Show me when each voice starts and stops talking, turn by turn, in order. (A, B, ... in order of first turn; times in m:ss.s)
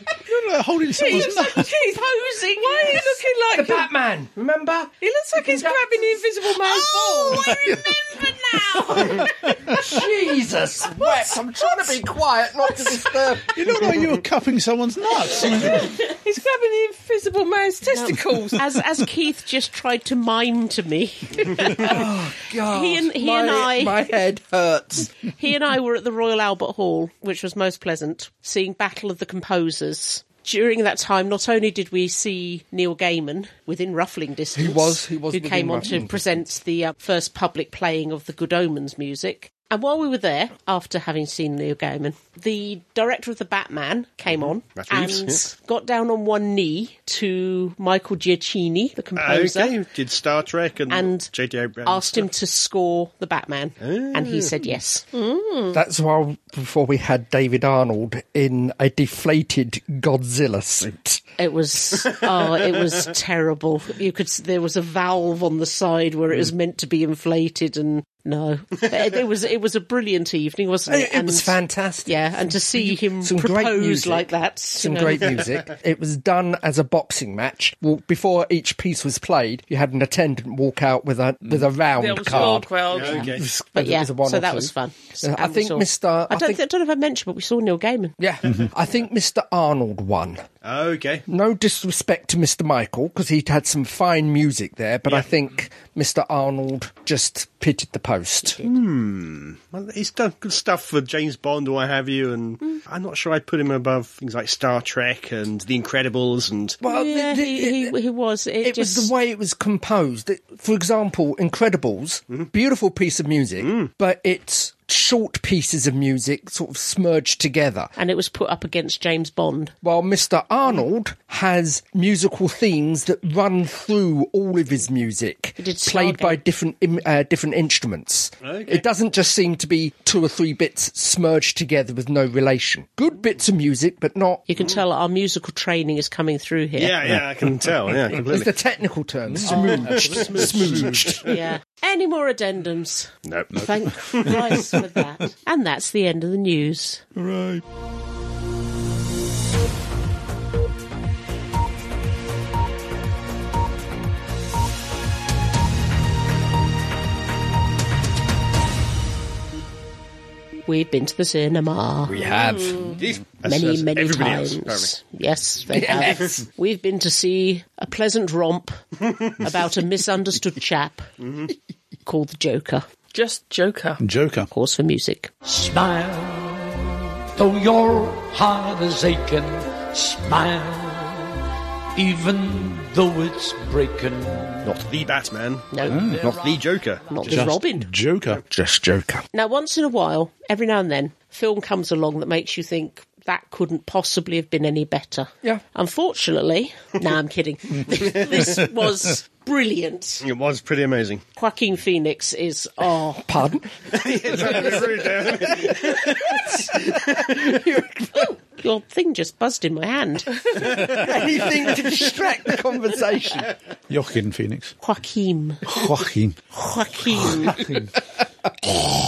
0:00.2-0:01.7 A
0:00.9-0:03.9 B
0:02.0-0:02.6 C
0:03.5-0:08.0 D
0:05.0-0:07.8 B
0:07.3-0:07.6 C
0:08.1-0:09.2 C
0:08.8-0:13.9 D
0:13.5-0:15.9 A
0:15.6-0:18.6 B
0:17.9-0:24.1 C
0:21.7-0:25.1 D
0:25.2-0:49.8 C
0:34.5-0:36.2 D
0:44.3-0:45.4 E
0:49.2-0:52.3 E
0:50.9-0:55.0 C
0:53.8-0:54.5 E
0:55.1-0:55.8 B
0:55.7-1:01.2 D
1:01.4-1:15.5 C
1:10.9-1:26.6 D
1:21.9-1:23.2 B
1:22.8-1:23.4 E
1:23.1-1:28.2 C
1:28.2-1:30.4 D
1:30.6-1:31.2 E
1:31.3-1:38.6 D
1:38.6-1:46.8 E
1:46.8-1:47.9 D
1:46.8-1:49.1 C
1:48.6-1:57.9 D
1:53.6-1:53.9 E
1:58.0-1:59.7 C
1:59.8-2:14.4 D
2:05.6-2:06.4 C
2:08.4-2:08.8 E
2:14.5-2:17.2 C
2:16.8-2:18.5 E
2:18.1-2:21.3 D
2:19.4-2:21.1 A
2:19.4-2:21.2 E
2:21.2-2:27.0 C
2:23.2-2:24.6 E
2:27.2-2:27.6 A
2:40.6-2:42.2 C
2:42.1-2:43.0 D
2:42.8-2:44.9 E
2:43.4-2:48.8 C
2:45.7-2:46.4 D
2:49.0-2:49.4 E
2:49.4-2:51.1 C
2:51.2-2:51.5 E
2:52.0-2:52.9 C
2:53.1-2:54.0 B
2:54.0-2:54.5 A
2:54.5-2:55.3 C
2:55.4-3:01.4 F
3:01.9-3:04.7 F
3:04.6-3:07.3 E
3:05.7-3:06.5 C
3:05.8-3:06.4 A
3:07.0-3:07.9 C
3:07.3-3:08.4 A
3:08.4-3:09.2 D
3:09.3-3:20.2 C
3:17.9-3:18.5 E
3:20.2-3:21.2 E
3:21.4-3:23.3 C
3:23.3-3:28.3 D
3:23.9-3:26.7 E
3:28.6-3:30.4 C
3:30.6-3:33.5 D
3:33.9-3:34.7 A
3:34.8-3:35.8 C
3:35.6-3:36.4 A
3:36.5-3:37.6 C